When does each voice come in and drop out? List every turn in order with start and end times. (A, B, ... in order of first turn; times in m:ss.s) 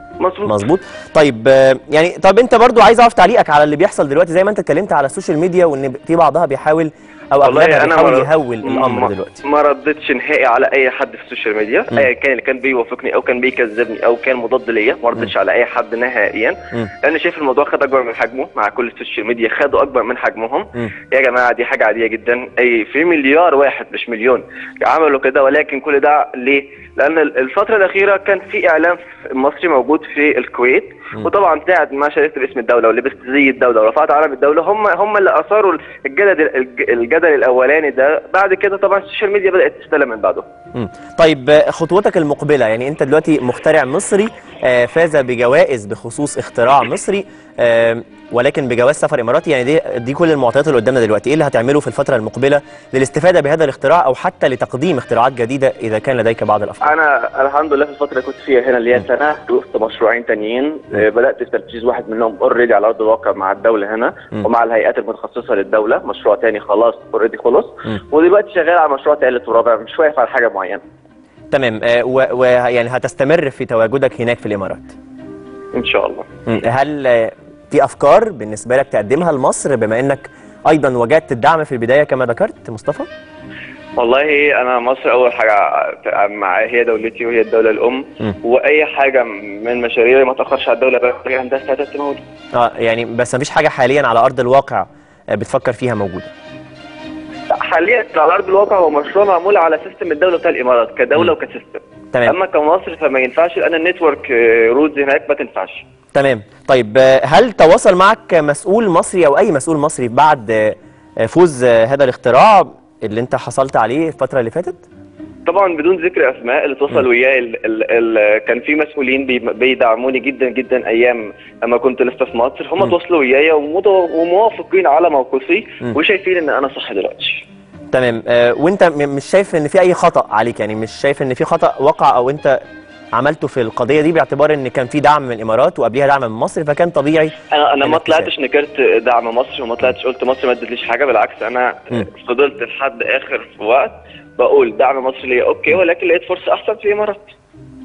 0:00.2-0:00.6 A
0:00.4-0:09.4 B
0:07.4-0:40.4 A
0:40.7-0:56.9 B
0:56.8-1:10.8 A
1:11.5-1:14.9 B
1:15.7-1:16.2 A
1:16.4-1:23.1 B
1:24.0-1:32.2 A
1:32.5-1:36.3 B
1:37.5-1:45.8 A
1:46.1-1:54.8 B
1:55.4-2:07.4 A
2:07.9-2:12.6 B
2:13.1-2:18.3 B
2:17.5-2:27.3 A